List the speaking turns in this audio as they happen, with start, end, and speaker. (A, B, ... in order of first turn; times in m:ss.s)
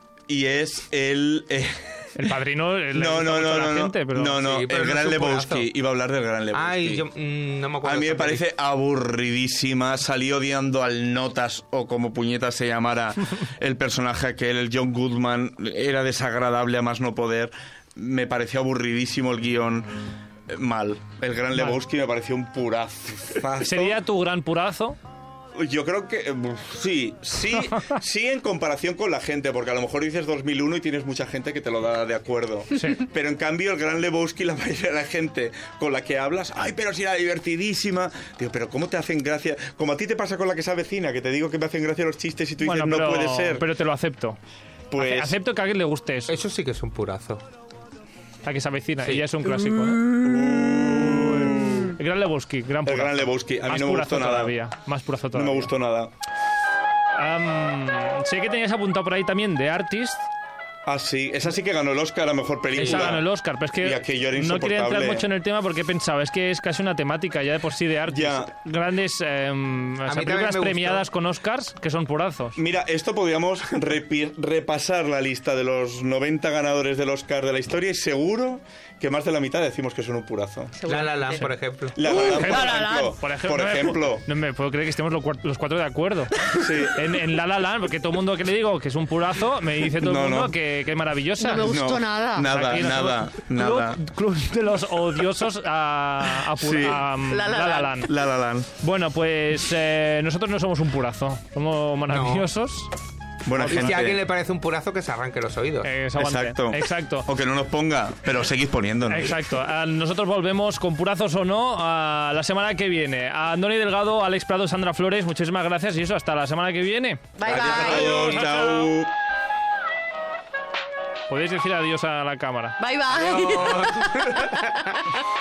0:00.3-0:02.2 A
0:02.2-0:04.4 B
0:02.9-0:07.0 A
0:04.3-0:05.7 C
0:06.5-0:08.4 C
0:07.8-0:19.9 A
0:20.5-0:24.0 A
0:23.6-0:25.0 B
0:25.6-0:43.7 A
0:42.6-0:44.4 B
0:44.9-0:45.4 A
0:45.0-0:46.4 B
0:46.3-0:47.4 C
0:48.4-0:50.1 B
0:50.1-0:52.0 A
0:51.2-0:55.7 B
0:52.8-0:54.5 A
0:55.3-0:56.1 A
0:57.2-1:00.2 B
1:00.8-1:03.2 A
1:02.8-1:12.6 B
1:02.8-1:03.1 C
1:03.8-1:05.3 A
1:08.1-1:08.5 A
1:10.1-1:11.0 C
1:12.6-1:20.8 A
1:20.8-1:21.4 D
1:20.9-1:22.0 C
1:21.4-1:26.4 B
1:22.0-1:24.2 A
1:22.0-1:22.8 D
1:26.6-1:27.0 A
1:26.9-1:31.8 B
1:30.0-1:30.5 A
1:31.4-1:32.9 D
1:31.6-1:34.0 A
1:32.4-1:38.1 B
1:36.5-1:37.1 A
1:37.3-1:38.1 D
1:38.0-1:38.7 A
1:38.8-1:42.9 B
1:42.1-1:42.5 C
1:43.4-1:44.2 A
1:43.6-1:45.9 C
1:43.6-1:43.9 B
1:45.8-1:47.3 B
1:46.2-1:49.4 A
1:49.1-1:57.2 B
1:57.4-1:58.9 D
1:57.4-1:59.1 A
1:57.5-1:58.9 C
2:01.3-2:02.8 B
2:02.8-2:04.9 D
2:03.1-2:05.0 C